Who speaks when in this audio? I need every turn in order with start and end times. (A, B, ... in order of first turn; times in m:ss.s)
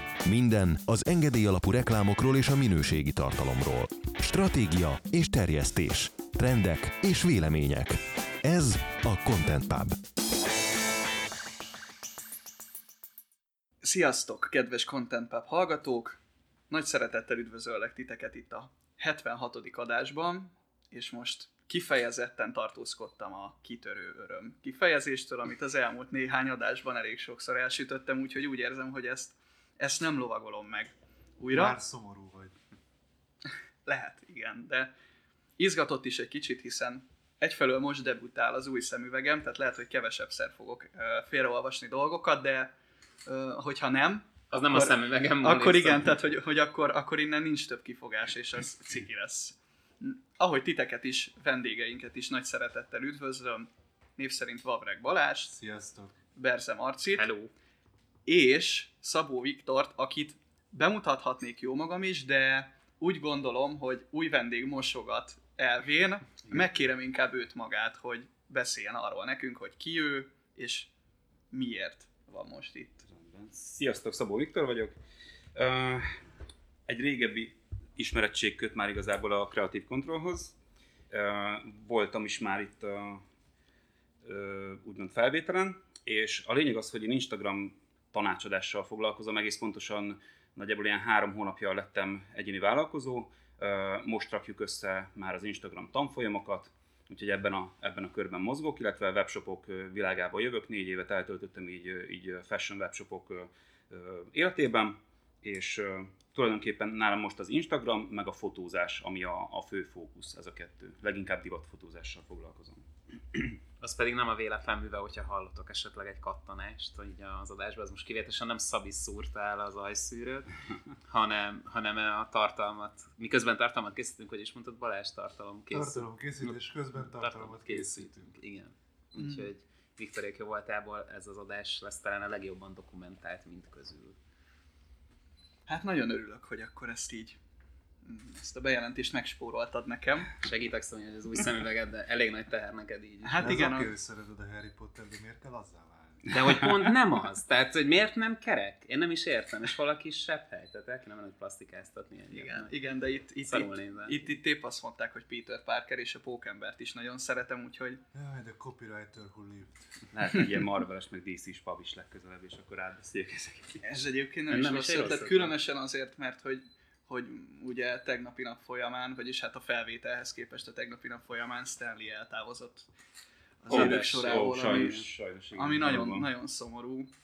0:00.2-0:10.0 A
0:13.8-0:31.8 B
0:31.5-0:32.6 C
0:33.9-0:34.9 B
0:35.6-0:42.7 B
0:43.3-0:55.5 B
0:44.5-0:46.2 D
0:55.5-0:56.2 C
0:56.4-0:57.3 B
0:57.1-0:57.5 D
0:58.3-1:10.9 B
1:11.5-1:13.1 B
1:13.1-1:15.0 E
1:15.6-1:16.2 E
1:16.9-1:20.6 E
1:21.1-1:23.2 E
1:24.2-1:53.5 E
1:53.8-2:00.5 D
2:01.0-2:14.2 D
2:05.7-2:08.3 C
2:09.2-2:09.5 B
2:15.7-2:17.4 B
2:18.0-2:20.4 B
2:20.4-2:23.6 D
2:23.2-2:23.9 B
2:23.4-2:26.4 C
2:26.3-2:32.7 D
2:32.3-2:38.0 B
2:33.4-2:34.2 D
2:38.1-2:40.0 C
2:40.1-2:43.8 E
2:43.8-2:52.9 B
2:44.5-2:45.6 D
2:53.6-2:57.1 B
2:53.7-2:55.0 D
2:53.7-2:56.3 E